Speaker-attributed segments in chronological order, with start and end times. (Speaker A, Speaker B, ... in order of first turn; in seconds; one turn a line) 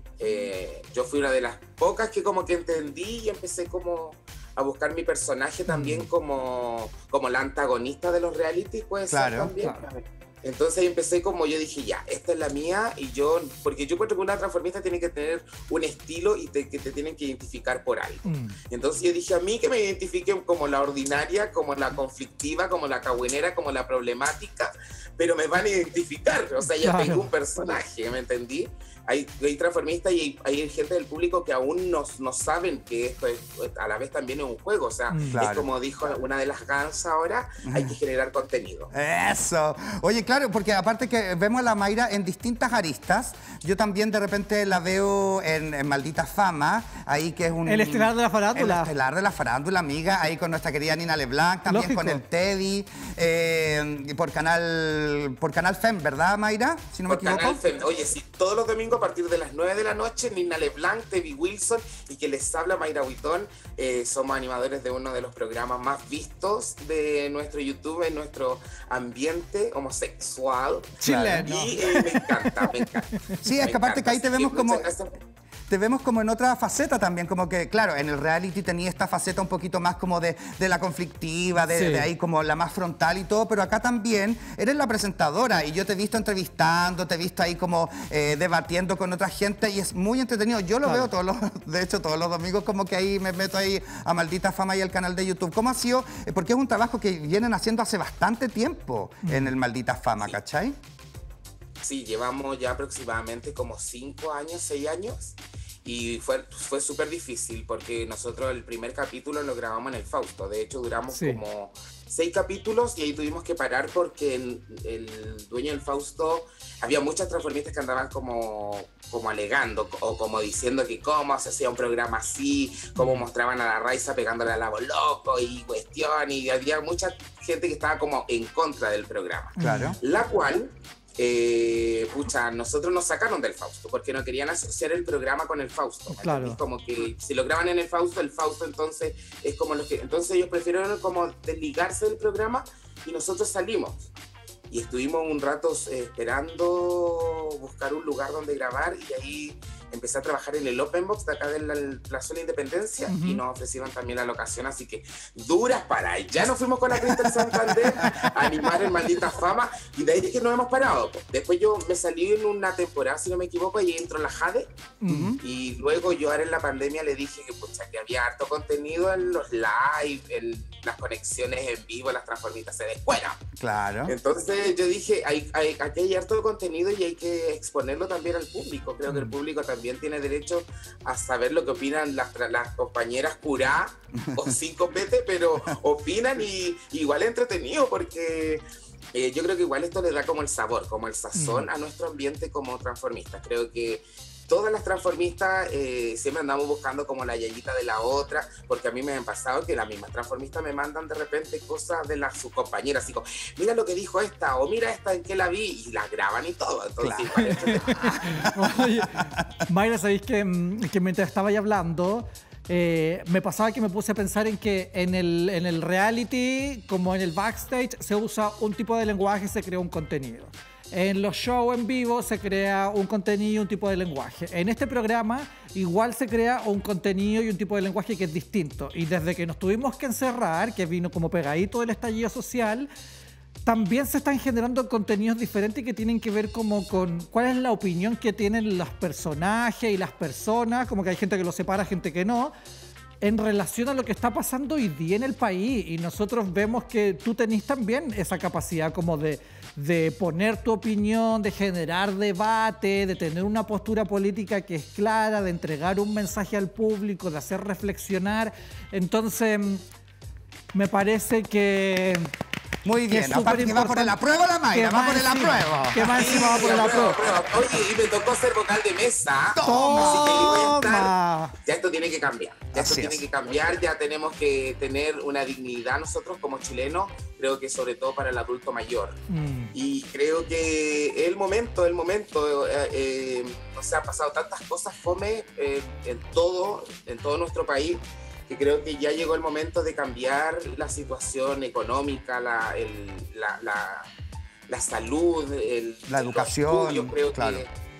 Speaker A: 0.2-38.9
Speaker B: 5.7-6.0
Speaker C: 9.1-9.5
Speaker B: 9.6-9.8
Speaker B: 18.2-18.6
Speaker B: 26.6-27.3
Speaker B: 35.1-35.4
Speaker C: 35.3-35.7
Speaker C: 37.6-38.0
Speaker C: 38.9-57.6
Speaker B: 47.6-48.9
Speaker B: 51.7-52.2
Speaker A: 57.1-75.1
Speaker B: 71.0-73.4
Speaker C: 71.0-71.5
Speaker C: 73.4-74.9
Speaker C: 75.7-100.8
Speaker B: 81.7-82.1
Speaker B: 99.2-99.5
Speaker A: 101.8-144.1
Speaker B: 111.1-111.4
Speaker B: 123.0-123.2
Speaker B: 129.6-129.9
Speaker C: 129.6-130.0
Speaker B: 136.1-136.6
Speaker A: 144.7-164.7
Speaker B: 153.1-153.4
Speaker C: 157.1-158.7
Speaker B: 165.0-165.3
Speaker C: 165.1-165.4
Speaker A: 165.4-173.4
Speaker C: 173.6-174.1
Speaker A: 174.1-208.1
Speaker C: 184.1-184.5
Speaker B: 191.3-191.7
Speaker C: 207.0-209.6
Speaker B: 207.4-232.9
Speaker B: 233.6-242.5
Speaker B: 243.2-259.8
Speaker B: 260.7-262.3
Speaker C: 262.8-267.0
Speaker B: 263.1-264.1
Speaker B: 264.7-267.2
Speaker A: 266.1-279.2
Speaker C: 269.5-270.8
Speaker B: 269.6-271.5
Speaker C: 272.7-273.2
Speaker B: 279.3-279.7
Speaker A: 279.7-294.1
Speaker A: 294.7-297.7
Speaker C: 296.1-297.6